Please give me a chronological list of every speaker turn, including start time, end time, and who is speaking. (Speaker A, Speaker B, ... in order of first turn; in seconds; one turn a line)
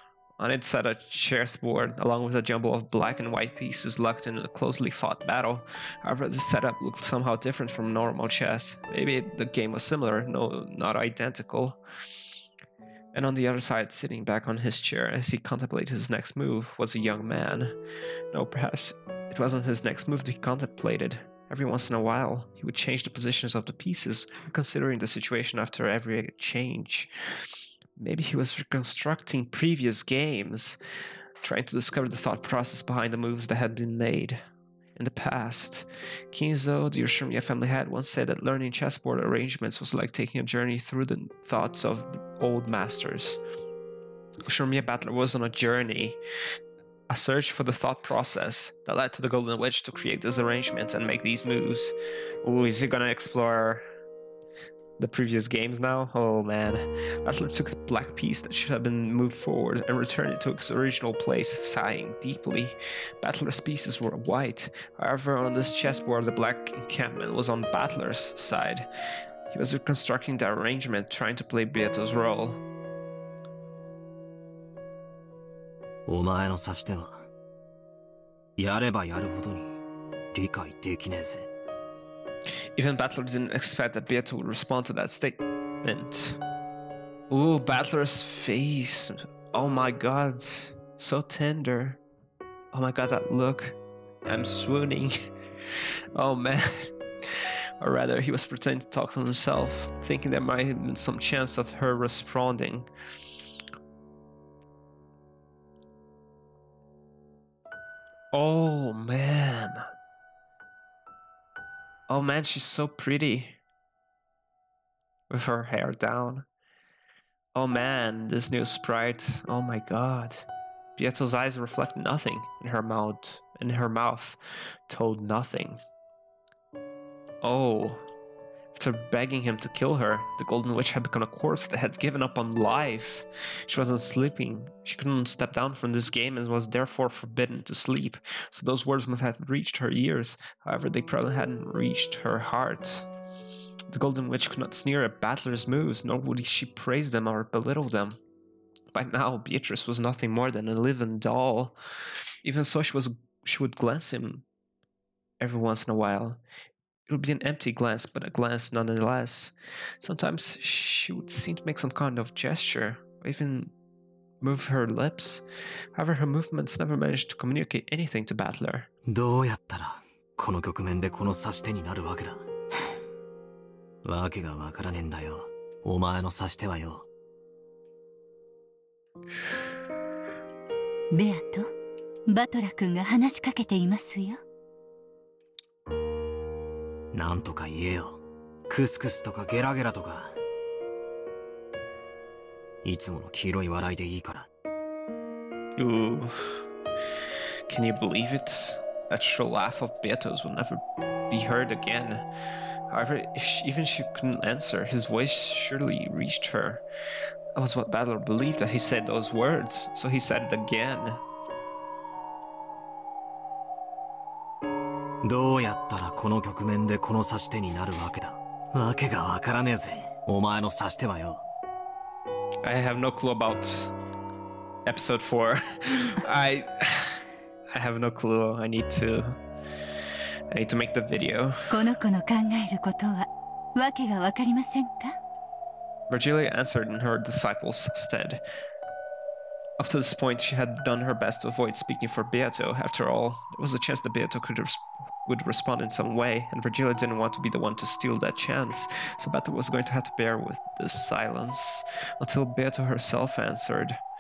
Speaker A: 0.4-11.8
Speaker A: 13.1-17.8
Speaker A: 18.3-27.1
Speaker A: 28.0-30.8
Speaker A: 31.4-34.4
Speaker A: 35.0-43.4
Speaker A: 44.5-46.2
Speaker A: 47.1-53.8
Speaker A: 55.0-68.9
Speaker A: 69.5-72.6
Speaker B: 76.1-77.2
Speaker B: 78.6-79.8
Speaker B: 80.3-81.5
Speaker A: 82.8-86.4
Speaker A: 87.3-92.0
Speaker A: 92.7-95.2
Speaker A: 96.2-102.9
Speaker A: 108.3-109.8
Speaker A: 112.1-113.6
Speaker A: 115.3-116.5
Speaker A: 117.5-120.5
Speaker A: 121.0-125.8
Speaker A: 127.4-128.0
Speaker A: 128.7-143.1
Speaker A: 143.9-148.2
Speaker A: 148.9-151.8
Speaker A: 152.4-154.4
Speaker A: 155.4-156.4
Speaker A: 157.1-163.7
Speaker A: 164.4-165.4
Speaker A: 165.9-168.9
Speaker B: 169.1-172.4
Speaker B: 174.0-177.1
Speaker C: 181.1-181.7
Speaker C: 182.3-184.4
Speaker B: 187.1-190.3
Speaker B: 192.8-194.5
Speaker A: 195.8-196.5
Speaker A: 197.7-202.2
Speaker A: 202.9-206.8
Speaker A: 207.6-211.2
Speaker B: 215.2-221.4
Speaker A: 222.6-223.9
Speaker A: 224.8-227.2
Speaker A: 227.7-229.4
Speaker A: 230.5-231.6
Speaker C: 231.7-235.2
Speaker A: 236.1-238.4
Speaker A: 239.8-254.0